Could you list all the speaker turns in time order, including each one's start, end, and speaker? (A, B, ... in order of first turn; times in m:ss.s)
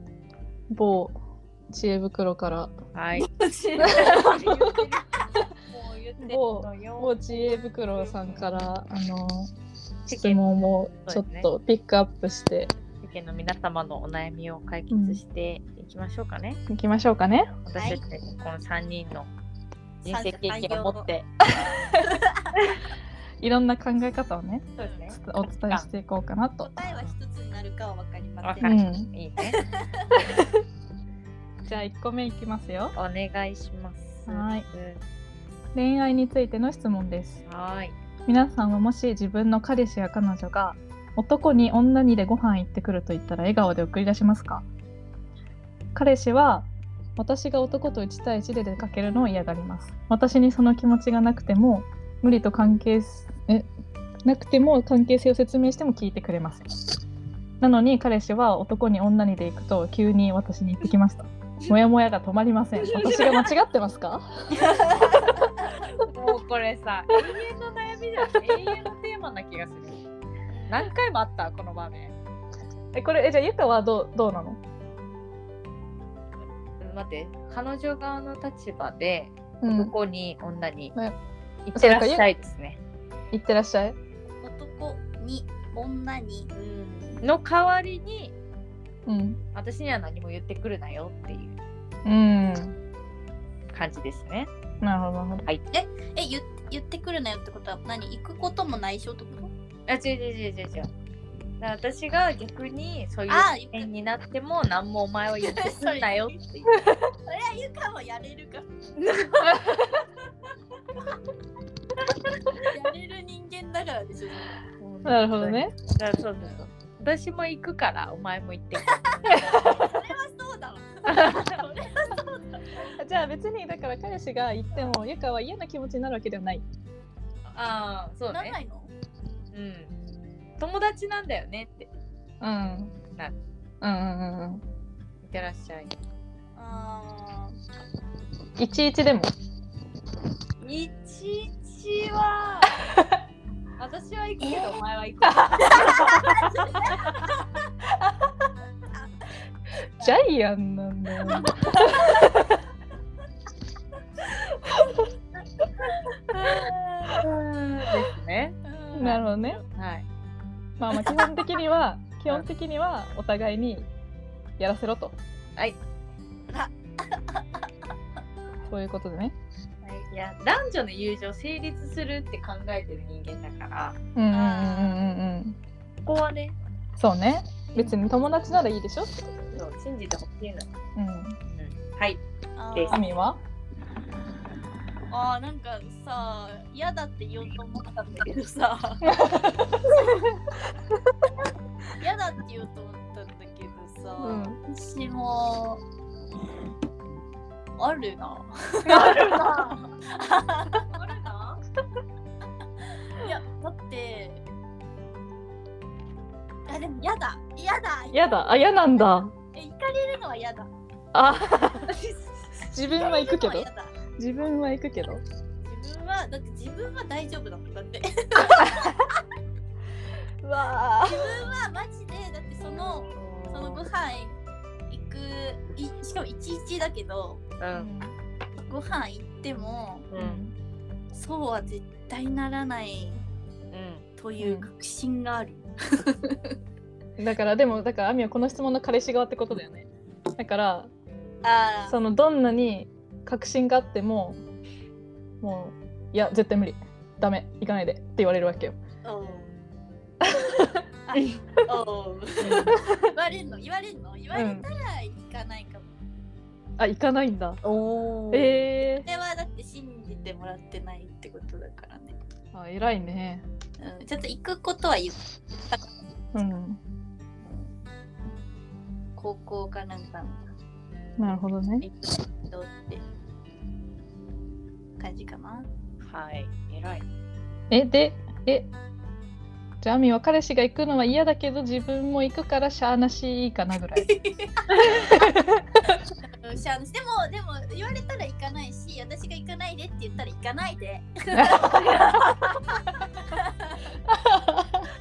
0:00.7-0:01.2 A
0:01.7-0:02.7 A
0:02.9-0:03.3 B
0:03.1-0:04.5 C
0:03.8-0:04.3 A
0:03.9-0:08.6 B
0:06.2-0:09.5 A
0:10.1-0:11.5 B
0:10.1-0:12.7 A
0:13.0-0:16.6 B
0:14.9-0:15.2 A
0:16.7-0:17.6 A
0:17.6-0:19.3 B
0:17.8-0:18.0 C
0:20.0-0:21.3 B
0:20.1-0:21.1 C
0:22.0-0:22.5 C
0:23.4-0:26.7 A
0:24.8-0:25.9 B
0:26.6-0:28.8 C
0:28.4-0:29.6 B
0:28.6-0:29.1 A
0:29.5-0:30.1 C
0:31.6-0:33.0 A
0:32.9-0:35.0 B
0:34.3-0:34.7 A
0:35.7-0:37.4 A
0:37.4-0:37.9 B
0:38.3-0:44.6 A
0:45.9-0:53.7 A
0:54.2-0:56.6 A
0:57.6-1:05.2 A
1:02.8-1:03.5 B
1:04.6-1:05.4 C
1:06.0-1:10.0 B
1:08.4-1:08.8 A
1:10.5-1:12.1 B
1:12.9-1:14.6 A
1:16.8-1:20.9 B
1:19.6-1:19.9 A
1:21.6-1:22.8 B
1:21.8-1:22.3 A
1:23.3-1:24.0 A
1:24.4-1:26.5 C
1:26.5-1:28.3 B
1:29.1-1:29.4 A
1:29.5-1:31.6 B
1:32.0-1:32.7 A
1:33.7-1:34.5 B
1:34.8-1:35.4 A
1:35.7-1:39.5 C
1:39.9-1:40.9 B
1:41.6-1:46.4 B
1:43.3-1:43.9 C
1:45.4-1:49.6 C
1:49.0-1:49.8 B
1:52.6-1:54.6 C
1:54.8-1:59.3 B
1:55.0-1:55.7 A
1:59.2-2:02.8 C
1:59.4-2:00.0 A
2:01.1-2:01.4 B
2:03.0-2:06.6 A
2:07.5-2:08.6 B
2:08.3-2:08.9 C
2:09.5-2:09.9 B
2:10.6-2:11.9 B
2:12.4-2:12.9 A
2:13.8-2:14.6 A
2:15.2-2:16.0 B
2:16.5-2:17.6 C
2:18.6-2:19.3 A
2:20.6-2:22.8 B
2:23.8-2:26.9 B
2:25.7-2:27.5 C
2:30.0-2:32.3 A
2:31.2-2:32.2 C
2:36.4-2:37.2 C
2:37.2-2:39.2 B
2:38.6-2:39.6 C
2:39.0-2:39.6 A
2:39.7-2:40.0 B
2:40.8-2:43.9 A
2:40.9-2:41.3 B
2:44.6-2:45.2 A
2:46.5-2:47.6 C
2:48.7-2:49.4 A
2:50.1-2:54.0 B
2:54.2-2:55.6 A
2:54.3-2:55.0 C
2:56.0-2:56.6 B
2:57.0-2:59.6 A
2:59.5-3:00.7 B
3:01.0-3:01.4 A
3:01.5-3:03.0 B
3:02.6-3:03.2 C
3:02.9-3:03.4 A
3:05.1-3:09.2 C
3:09.0-3:09.8 A
3:12.0-3:15.8 C
3:14.2-3:14.6 A
3:17.8-3:19.4 C
3:18.8-3:19.8 B
3:20.1-3:20.9 C
3:20.8-3:21.6 B
3:23.2-3:24.4 C
3:26.7-3:28.5 C
3:28.1-3:29.3 A
3:29.5-3:30.7 C
3:31.1-3:31.9 A
3:32.4-3:33.9 C
3:32.6-3:35.2 A
3:35.6-3:39.0 C
3:40.4-3:41.4 A
3:41.0-3:44.4 C
3:42.8-3:43.9 B
3:44.9-3:47.4 C
3:47.6-3:47.9 B
3:47.7-3:48.1 A
3:48.6-3:50.1 C
3:50.1-3:50.4 B
3:50.2-3:50.5 A
3:51.1-3:53.2 C
3:53.7-3:54.0 B
3:54.2-3:56.4 C
3:54.4-3:54.7 A
3:57.2-4:00.9 A
4:01.4-4:02.0 C
4:01.9-4:04.4 A
4:05.4-4:08.8 A
4:09.0-4:09.5 C
4:10.2-4:10.8 A
4:11.1-4:15.9 C
4:11.1-4:11.4 B
4:12.4-4:12.7 B
4:14.3-4:14.7 A
4:16.8-4:17.6 A
4:17.6-4:18.6 B
4:18.3-4:19.0 A
4:19.0-4:22.2 C
4:22.5-4:23.4 A
4:23.8-4:25.8 C
4:26.3-4:26.8 A
4:29.1-4:30.4 C
4:31.2-4:31.8 A
4:31.8-4:33.0 C
4:35.0-4:35.7 C
4:36.0-4:37.0 B
4:37.7-4:38.7 A
4:39.8-4:44.1 A
4:44.0-4:45.0 C
4:45.1-4:45.5 A
4:46.4-4:53.9 C
4:51.4-4:51.6 A
4:54.5-4:54.8 A